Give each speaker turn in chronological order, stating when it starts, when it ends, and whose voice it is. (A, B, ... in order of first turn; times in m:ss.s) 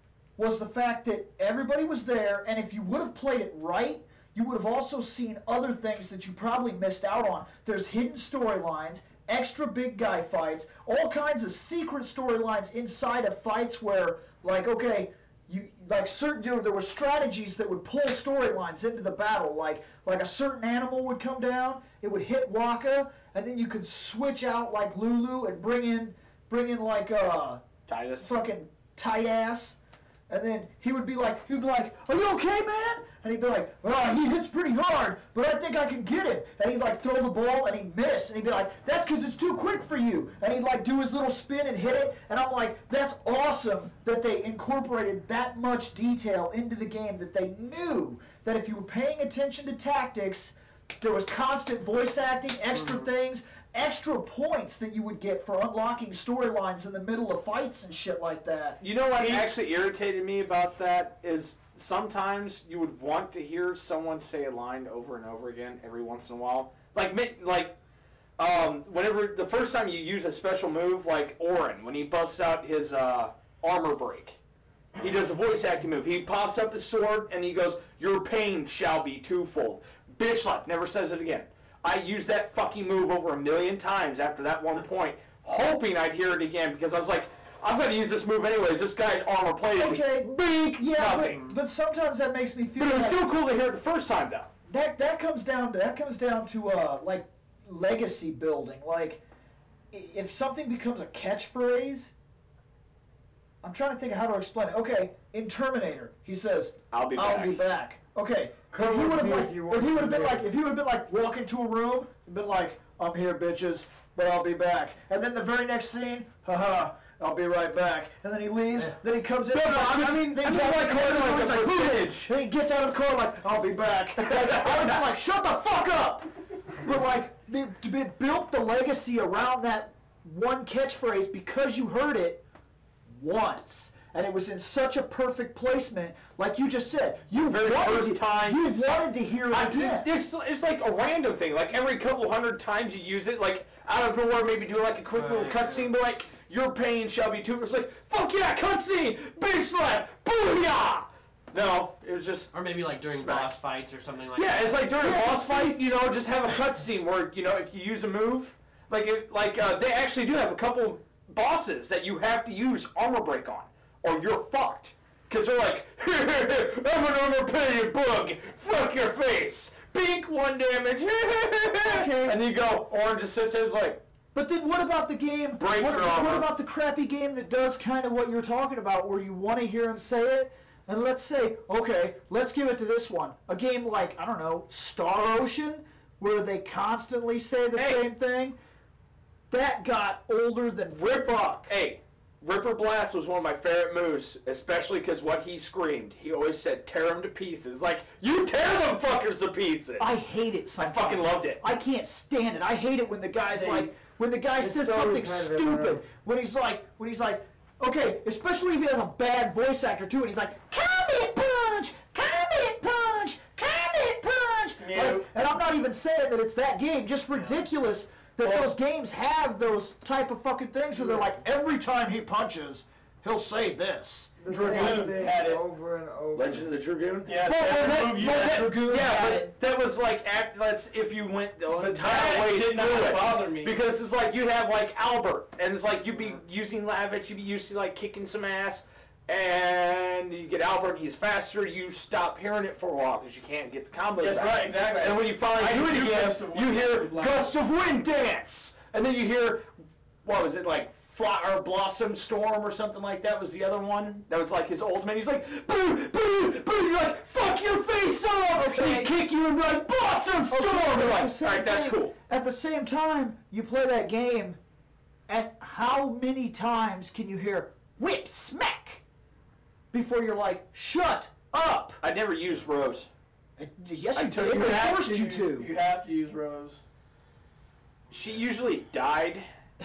0:00.4-0:27.6 A
0:27.9-0:28.3 B
0:28.2-0:29.8 A
0:30.3-0:58.8 A
0:58.8-1:07.8 B
0:59.2-0:59.5 C
1:08.4-1:14.4 B
1:15.0-1:31.6 B
1:29.7-1:33.2 A
1:32.8-1:34.5 B
1:34.7-1:39.2 A
1:39.9-1:42.1 A
1:43.6-2:12.4 A
1:46.9-1:47.6 B
1:48.7-1:50.4 D
1:59.5-2:02.3 B
2:04.2-2:05.0 B
2:13.1-2:20.1 A
2:17.4-2:33.6 B
2:25.1-2:25.9 E
2:32.5-2:35.0 E
2:34.4-2:54.0 B
2:35.0-2:35.8 A
2:51.8-2:52.4 A
2:54.3-3:08.6 A
2:55.6-2:56.5 B
3:07.8-3:08.0 B
3:09.5-3:11.7 A
3:10.9-3:20.2 B
3:20.0-3:45.0 A
3:20.8-3:21.6 B
3:24.6-3:26.0 D
3:34.8-3:35.3 C
3:44.4-3:46.7 D
3:44.5-3:45.5 C
3:44.5-3:45.6 B
3:46.3-4:09.7 B
3:47.2-3:48.9 C
3:47.5-3:49.5 A
3:51.7-3:53.8 C
4:04.2-4:07.6 C
4:10.2-4:22.1 B
4:18.5-4:19.1 A
4:20.5-4:24.6 A
4:25.3-4:29.0 A
4:29.9-4:32.0 A
4:32.0-4:33.1 B
4:33.6-4:35.7 A
4:34.1-4:34.8 B
4:34.4-4:36.8 C
4:38.1-4:39.5 B